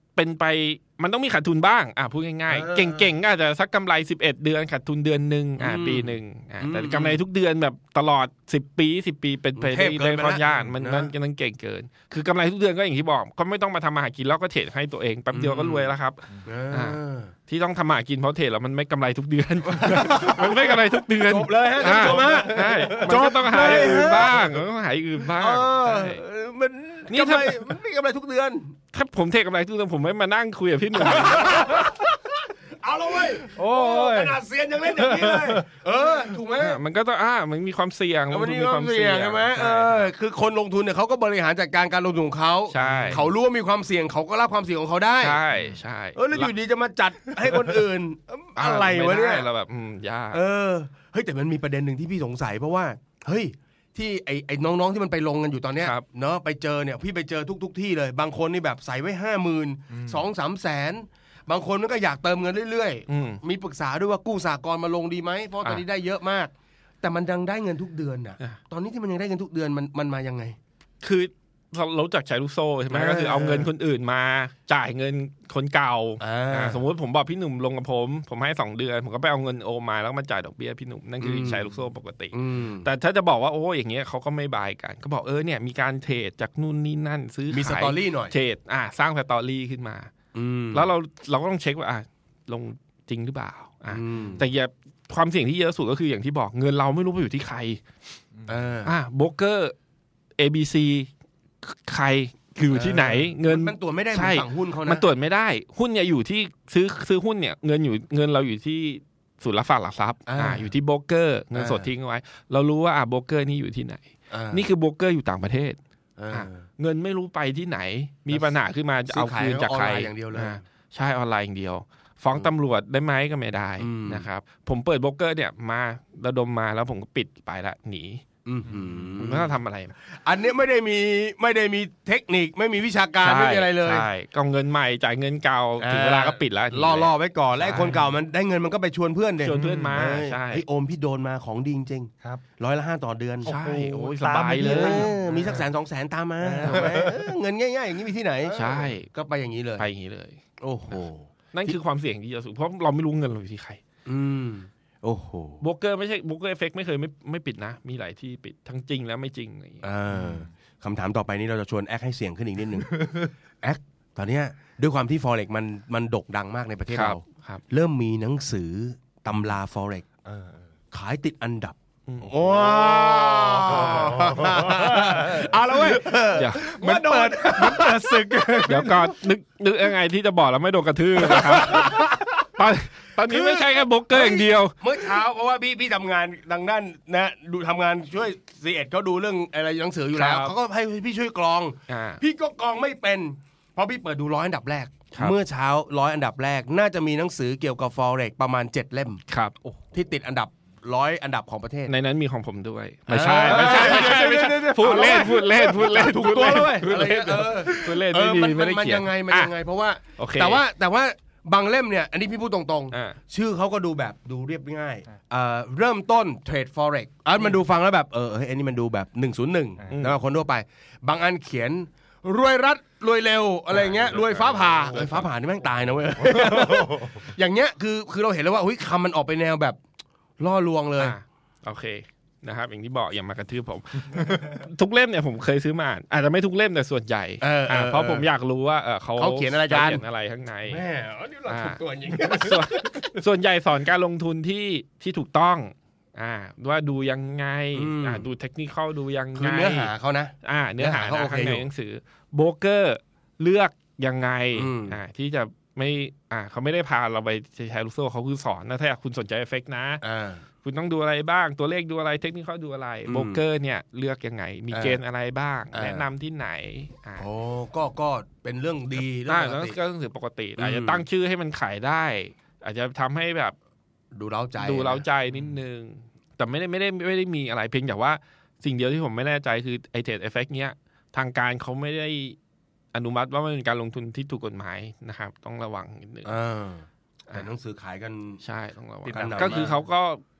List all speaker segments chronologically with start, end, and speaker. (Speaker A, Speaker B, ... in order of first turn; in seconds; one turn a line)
Speaker A: 0.1-26.2
Speaker B: 2.5-3.1
Speaker B: 5.6-7.2
Speaker B: 9.6-11.1
Speaker B: 15.3-15.9
Speaker B: 16.4-17.3
Speaker B: 19.8-20.7
Speaker B: 21.3-24.4
Speaker C: 22.0-22.3
Speaker C: 23.1-24.1
Speaker B: 25.3-28.7
Speaker A: 27.1-27.6
Speaker A: 28.9-31.8
Speaker B: 31.0-36.8
Speaker C: 33.5-34.4
Speaker C: 35.0-35.6
Speaker A: 36.6-40.1
Speaker B: 38.3-45.4
Speaker A: 42.7-43.2
Speaker C: 42.8-43.2
Speaker A: 45.2-46.5
Speaker B: 46.1-49.5
Speaker A: 48.6-50.4
Speaker B: 50.3-66.5
Speaker C: 59.9-60.2
Speaker A: 63.1-63.4
Speaker B: 67.0-70.6
Speaker A: 71.0-90.1
Speaker B: 72.9-73.7
Speaker B: 76.2-76.8
Speaker B: 81.2-81.8
Speaker B: 82.3-82.9
Speaker B: 87.5-88.3
Speaker B: 90.3-90.9
Speaker A: 90.7-97.8
Speaker B: 93.9-94.4
Speaker B: 98.5-98.9
Speaker A: 98.8-99.7
Speaker A: 100.4-101.1
Speaker A: 101.6-115.8
Speaker B: 102.7-105.0
Speaker B: 110.3-110.7
Speaker B: 111.5-111.9
Speaker B: 114.3-114.7
Speaker B: 116.2-116.6
Speaker A: 116.3-128.2
Speaker B: 119.1-120.6
Speaker B: 123.8-124.3
Speaker B: 128.4-129.5
Speaker A: 129.2-129.9
Speaker B: 130.1-134.1
Speaker A: 133.2-137.9
Speaker B: 135.8-143.5
Speaker A: 139.4-140.6
Speaker C: 143.4-145.7
Speaker A: 143.4-145.6
Speaker B: 144.6-149.8
Speaker C: 146.4-147.2
Speaker A: 146.6-147.0
Speaker A: 148.5-149.1
Speaker A: 149.8-150.4
Speaker B: 150.6-151.8
Speaker A: 151.5-153.8
Speaker B: 154.1-155.6
Speaker A: 155.6-159.8
Speaker B: 159.8-170.1
Speaker C: 160.1-160.5
Speaker A: 166.9-167.6
Speaker C: 170.2-170.7
Speaker B: 170.9-179.0
Speaker A: 172.1-172.3
Speaker C: 172.4-179.1
Speaker A: 176.3-176.7
Speaker A: 178.7-184.8
Speaker B: 181.2-182.4
Speaker B: 183.3-199.2
Speaker A: 190.1-190.5
Speaker A: 191.9-192.2
Speaker A: 199.3-199.6
Speaker B: 199.9-201.9
Speaker A: 201.9-209.5
Speaker B: 203.1-229.8
Speaker C: 203.2-205.1
Speaker A: 210.2-210.6
Speaker A: 212.9-213.2
Speaker A: 219.9-220.2
Speaker A: 223.7-225.3
Speaker C: 226.6-227.0
Speaker B: 230.4-231.1
Speaker A: 231.0-240.8
Speaker B: 237.4-238.3
Speaker B: 239.2-240.0
Speaker B: 240.7-243.1
Speaker A: 241.5-249.9
Speaker B: 247.7-248.2
Speaker B: 249.4-251.6
Speaker A: 250.4-260.0
Speaker B: 254.5-255.0
Speaker B: 260.0-260.4
Speaker A: 260.6-267.2
Speaker B: 263.1-263.4
Speaker B: 264.7-265.0
Speaker B: 265.7-266.1
Speaker B: 267.2-269.8
Speaker A: 269.2-273.6
Speaker B: 270.6-271.0
Speaker B: 274.1-275.0
Speaker A: 274.6-282.4
Speaker A: 282.9-286.3
Speaker B: 286.2-288.4
Speaker A: 288.4-290.2
Speaker C: 289.1-289.8
Speaker B: 289.1-289.7